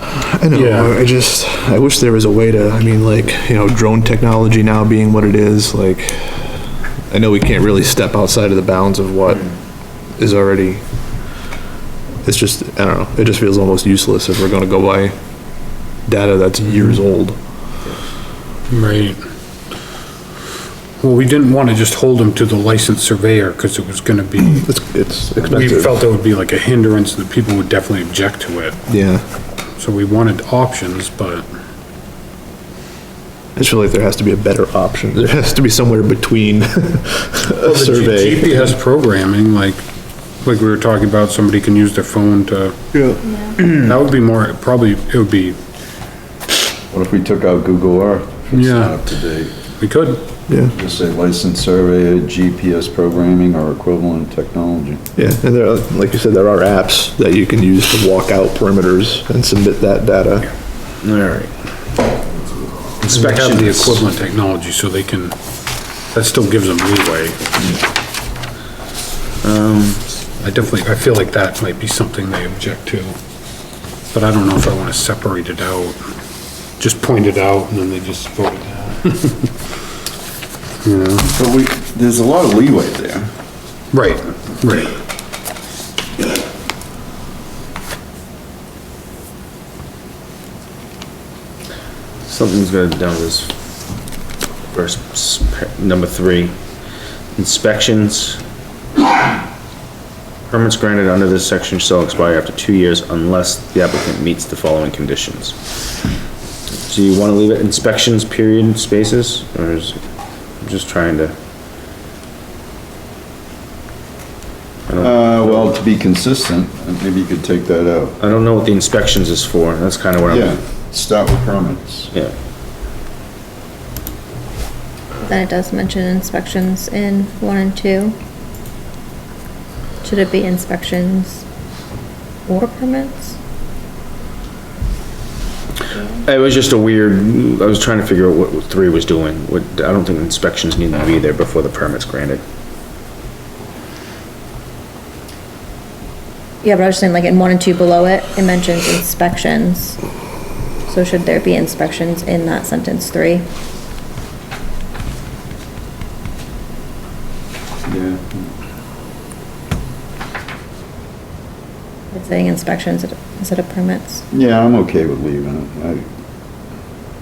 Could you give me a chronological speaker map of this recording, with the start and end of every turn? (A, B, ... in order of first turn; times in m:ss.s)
0:00.1-0:09.5 A
0:00.5-0:00.9 B
0:10.2-0:10.8 A
0:12.2-0:15.1 A
0:16.1-0:17.4 A
0:18.7-0:19.2 B
0:21.0-0:24.7 B
0:24.5-0:26.0 A
0:25.4-0:28.8 B
0:28.9-0:29.2 A
0:29.8-0:31.4 B
0:33.5-0:38.8 A
0:37.6-0:39.8 B
0:40.4-0:42.8 B
0:42.9-0:43.2 A
0:43.2-0:43.5 C
0:43.6-0:45.6 B
0:46.9-0:49.5 D
0:48.5-0:49.0 B
0:49.8-0:50.2 B
0:50.5-0:50.7 A
0:50.7-0:55.0 D
0:55.2-1:00.5 A
1:01.0-1:01.5 E
1:03.0-1:04.0 E
1:03.1-1:05.4 B
1:06.1-1:07.8 B
1:09.4-1:10.0 E
1:10.4-1:13.1 B
1:14.1-1:16.0 B
1:16.8-1:19.5 B
1:20.8-1:21.3 B
1:21.3-1:23.3 D
1:23.9-1:25.0 B
1:32.2-1:33.5 E
1:34.7-1:36.5 E
1:37.4-1:38.4 E
1:40.5-1:45.6 E
1:46.8-1:50.0 E
1:50.6-1:51.3 E
1:54.9-1:55.8 E
1:55.0-1:58.2 D
1:58.2-2:00.6 E
2:00.2-2:02.1 D
2:05.2-2:08.1 C
2:10.0-2:11.4 C
2:12.5-2:13.4 C
2:16.2-2:22.4 E
2:26.6-2:30.0 C
2:30.9-2:33.4 C
2:37.9-2:38.4 D
2:42.1-2:44.2 C
2:44.3-2:46.0 D